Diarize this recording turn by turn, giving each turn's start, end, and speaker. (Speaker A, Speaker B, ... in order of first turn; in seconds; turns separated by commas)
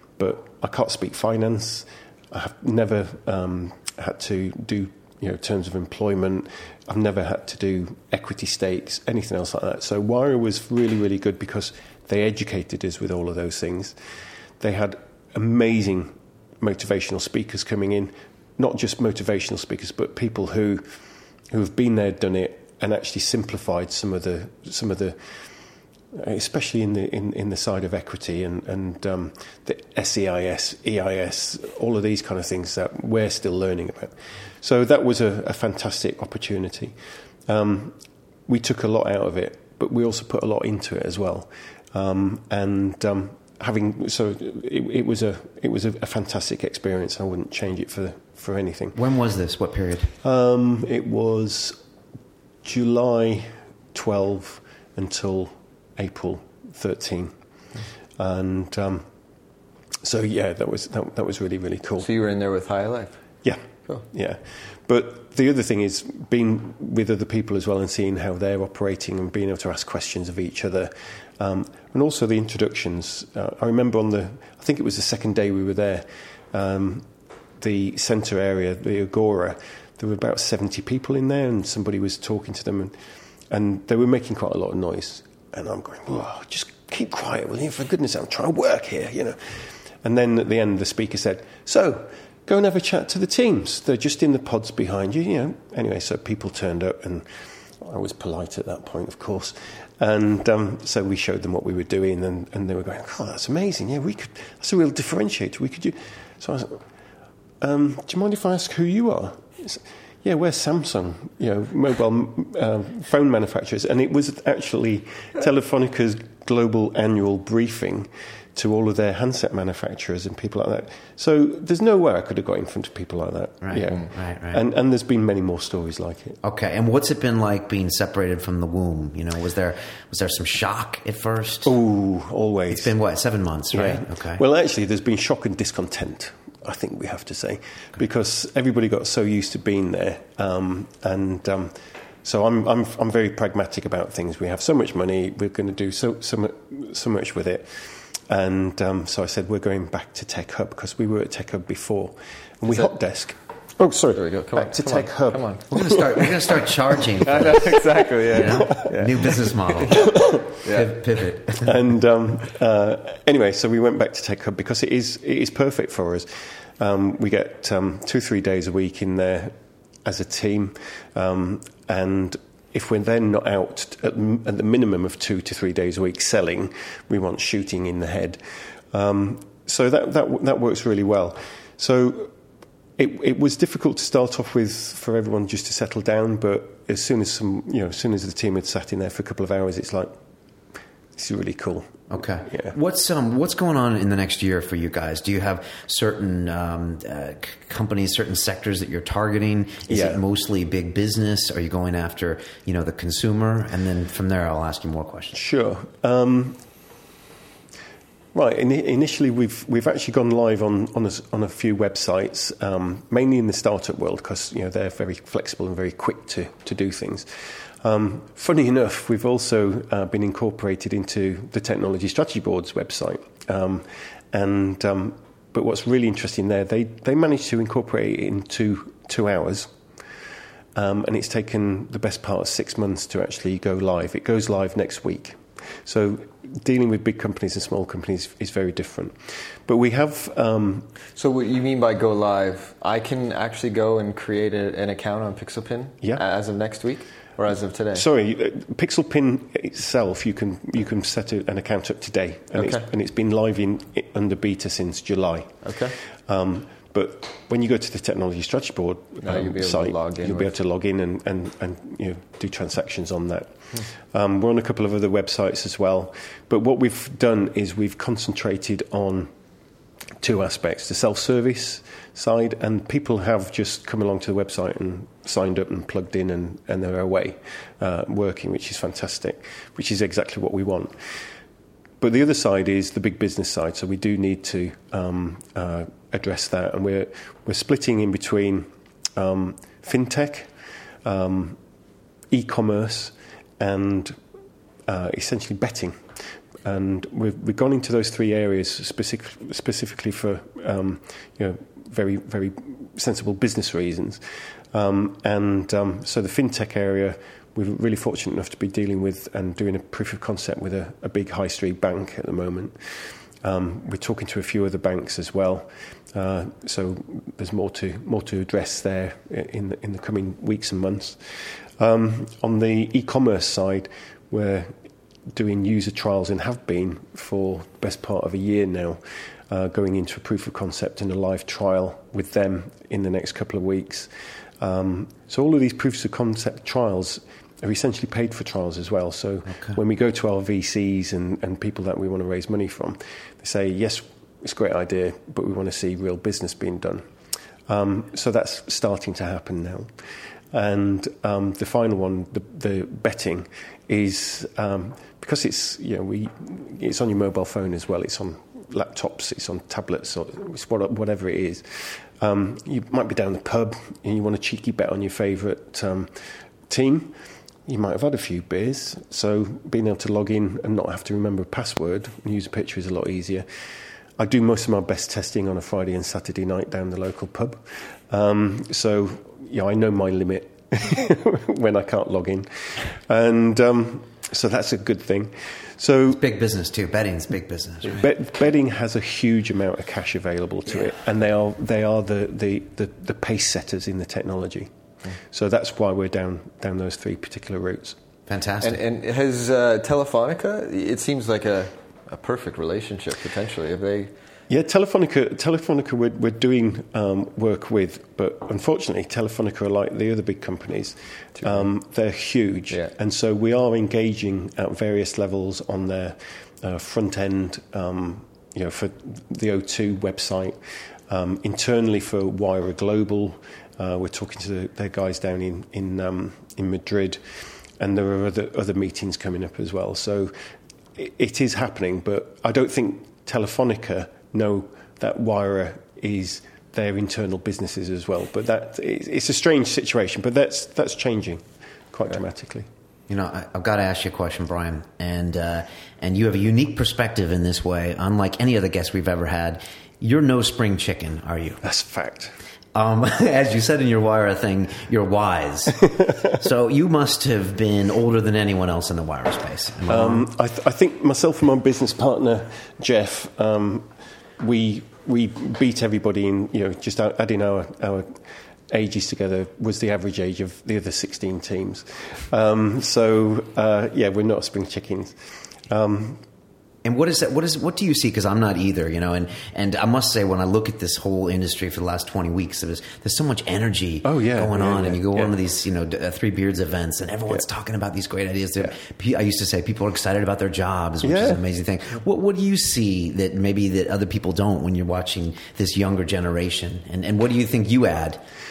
Speaker A: 0.2-13.9, Speaker A: 14.6-20.9, Speaker A: 21.5-25.3, Speaker A: 26.1-36.9, Speaker A: 37.5-37.9, Speaker A: 38.5-49.0, Speaker B: 48.9-50.1, Speaker A: 50.2-51.8, Speaker A: 52.6-57.3, Speaker A: 58.2-59.1, Speaker A: 60.0-62.1, Speaker C: 62.0-63.2, Speaker A: 63.4-77.1, Speaker A: 77.6-82.9, Speaker A: 83.5-97.3, Speaker A: 97.8-106.8, Speaker A: 107.6-126.4, Speaker B: 123.6-124.6, Speaker B: 126.4-131.7, Speaker A: 131.6-132.9, Speaker B: 132.7-134.4, Speaker A: 133.7-156.3, Speaker C: 152.6-152.9, Speaker C: 154.1-155.7, Speaker B: 155.7-161.7, Speaker C: 157.2-161.0, Speaker A: 161.6-178.4, Speaker A: 178.9-182.3, Speaker A: 183.0-190.1, Speaker A: 191.2-192.8, Speaker B: 192.1-205.4, Speaker A: 199.9-200.2, Speaker A: 205.3-206.6, Speaker A: 208.3-229.7, Speaker A: 230.7-240.9, Speaker C: 241.2-248.0, Speaker A: 247.9-269.3, Speaker C: 252.5-252.8, Speaker C: 255.6-255.9, Speaker C: 259.2-260.5, Speaker A: 270.2-280.9, Speaker A: 282.0-290.5, Speaker A: 291.0-291.6, Speaker A: 292.3-294.2, Speaker A: 294.9-296.0, Speaker A: 296.6-304.2, Speaker A: 304.7-324.7, Speaker A: 325.3-347.1, Speaker A: 347.7-349.9, Speaker A: 350.5-366.1, Speaker A: 366.7-367.1, Speaker A: 367.7-373.5, Speaker A: 374.2-386.2, Speaker B: 386.1-388.1, Speaker A: 387.8-394.7, Speaker A: 395.3-398.0, Speaker B: 398.3-398.8, Speaker C: 398.6-404.1, Speaker A: 404.5-420.6, Speaker A: 421.1-427.2, Speaker A: 427.8-430.3, Speaker A: 431.0-442.7, Speaker B: 443.1-451.6, Speaker A: 451.6-452.3, Speaker B: 452.7-460.3, Speaker A: 459.9-463.9, Speaker A: 464.4-468.2, Speaker A: 468.7-475.1, Speaker A: 475.7-476.2, Speaker B: 476.8-498.2, Speaker A: 484.0-485.3, Speaker A: 491.0-491.4